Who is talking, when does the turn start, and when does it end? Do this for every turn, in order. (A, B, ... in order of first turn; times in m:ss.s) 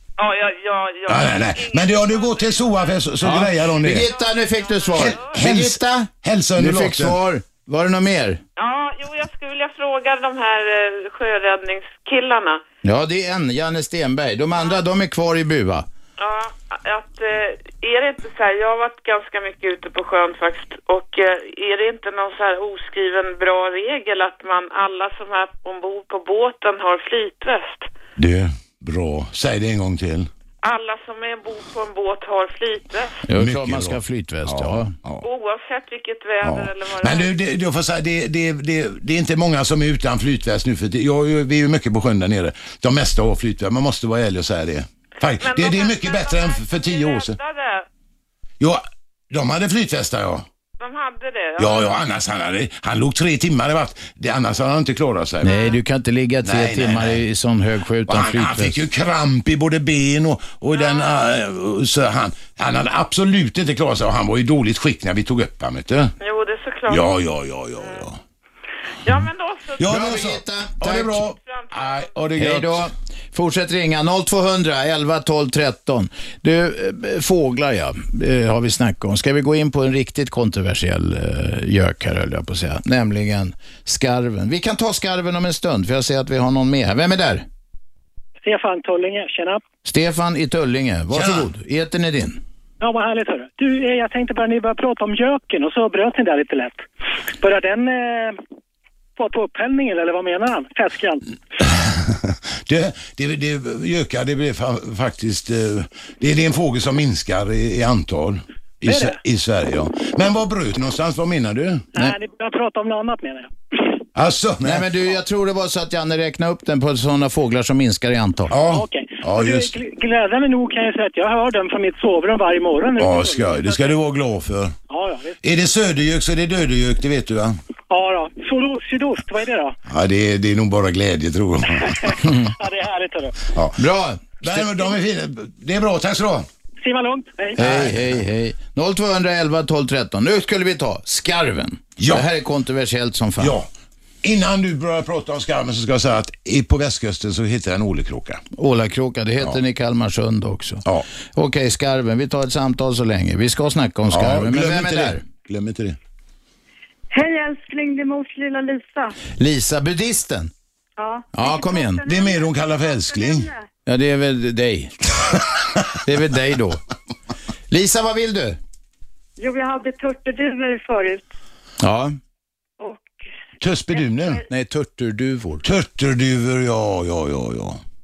0:00.2-0:03.0 A
0:01.1-0:04.1 B
0:03.2-0:08.4 C
0:04.0-0:05.4 A
0:04.9-0:07.2 B
0:08.6-0:12.6 A
0:12.8-0:15.8 C
0:16.2-0:27.9 A
0:28.2-0:30.3 B
0:30.6-0:33.2 A
0:33.3-0:34.9 C
0:33.3-0:35.2 B
0:35.2-0:37.3 A
0:36.4-0:47.4 B
0:45.4-0:47.8 A
0:48.6-0:50.4 B
0:50.8-0:52.0 A
0:51.6-0:55.6 B
0:55.4-0:55.8 A
0:55.4-0:58.8 C
0:56.4-0:57.2 B
0:58.1-1:06.1 B
1:00.7-1:01.2 A
1:06.2-1:07.1 A
1:06.9-1:08.2 B
1:07.8-1:08.0 A
1:09.0-1:10.3 A
1:09.8-1:12.9 B
1:09.8-1:11.3 C
1:11.2-1:12.1 A
1:12.4-1:27.4 C
1:28.4-1:29.6 D
1:29.8-1:32.4 C
1:31.1-1:31.5 B
1:32.8-1:36.8 D
1:37.4-1:38.4 D
1:39.2-1:41.2 D
1:41.6-1:51.9 B
1:48.8-1:49.2 D
1:51.9-1:53.5 D
1:54.1-1:54.9 B
1:54.6-1:58.5 C
1:58.5-1:59.7 B
1:58.7-2:03.9 D
2:03.0-2:04.7 B
2:04.9-2:05.4 D
2:05.4-2:07.6 B
2:07.9-2:09.8 D
2:09.9-2:12.2 B
2:11.7-2:13.3 D
2:12.2-2:12.5 C
2:13.5-2:13.8 B
2:13.8-2:14.7 C
2:14.4-2:16.5 B
2:16.8-2:17.6 D
2:17.6-2:18.2 B
2:17.6-2:23.5 C
2:22.0-2:22.2 B
2:23.4-2:23.7 B
2:24.2-2:28.4 B
2:28.5-2:30.8 C
2:31.3-2:35.2 C
2:34.1-2:36.0 B
2:37.1-2:39.2 E
2:39.4-2:40.5 C
2:41.0-2:43.6 E
2:41.3-2:42.0 C
2:42.0-2:43.5 B
2:43.8-2:45.4 C
2:46.0-2:46.8 C
2:47.7-2:48.6 C
2:49.4-2:51.2 E
2:51.8-2:52.1 C
2:52.8-2:53.2 E
2:53.6-2:54.4 B
2:54.0-2:54.2 E
2:54.5-2:55.6 C
2:55.6-2:57.8 B